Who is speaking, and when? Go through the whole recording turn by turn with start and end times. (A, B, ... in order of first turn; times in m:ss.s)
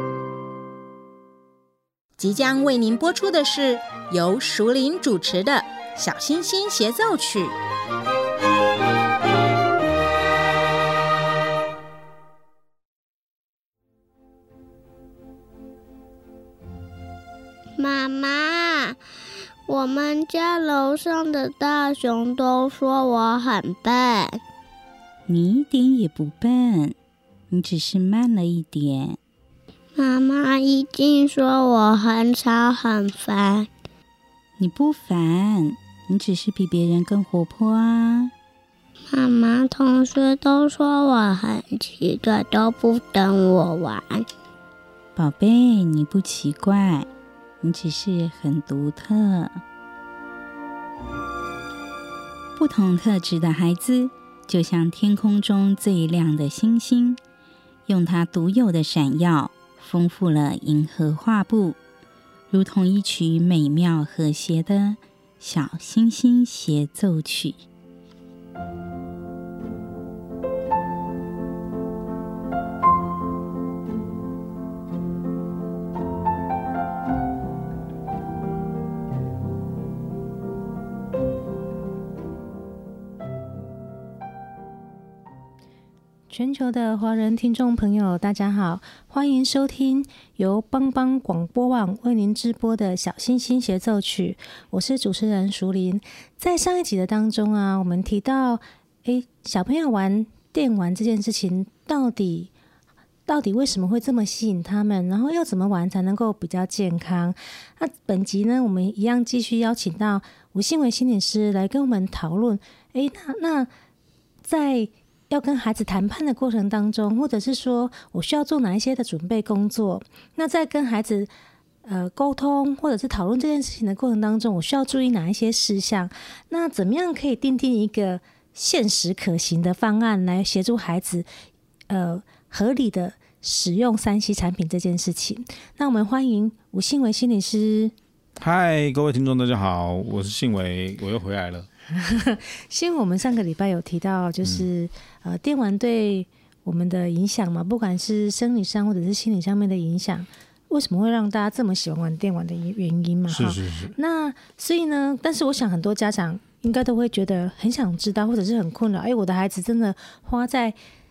0:02.2-0:07.6 A
0:17.8-0:19.0 B
0:19.7-0:24.4 B
0:25.3-0:26.9 C
0:27.5-0:29.2 C
0:30.0-0:33.7 B
0:34.6-0:38.3 C
0:39.1-0:44.2 B
0:45.2-0:47.1 C
0:47.6-0:49.6 C
0:52.6-0:57.2 C
0:57.8-1:01.8 C
1:02.5-1:07.6 C
1:26.3-1:42.5 D
1:43.3-1:53.7 D
1:54.4-2:01.3 D
2:01.8-2:11.3 D
2:11.9-2:17.9 D
2:18.4-2:21.7 E
2:21.9-2:40.8 D
2:33.3-2:34.0 E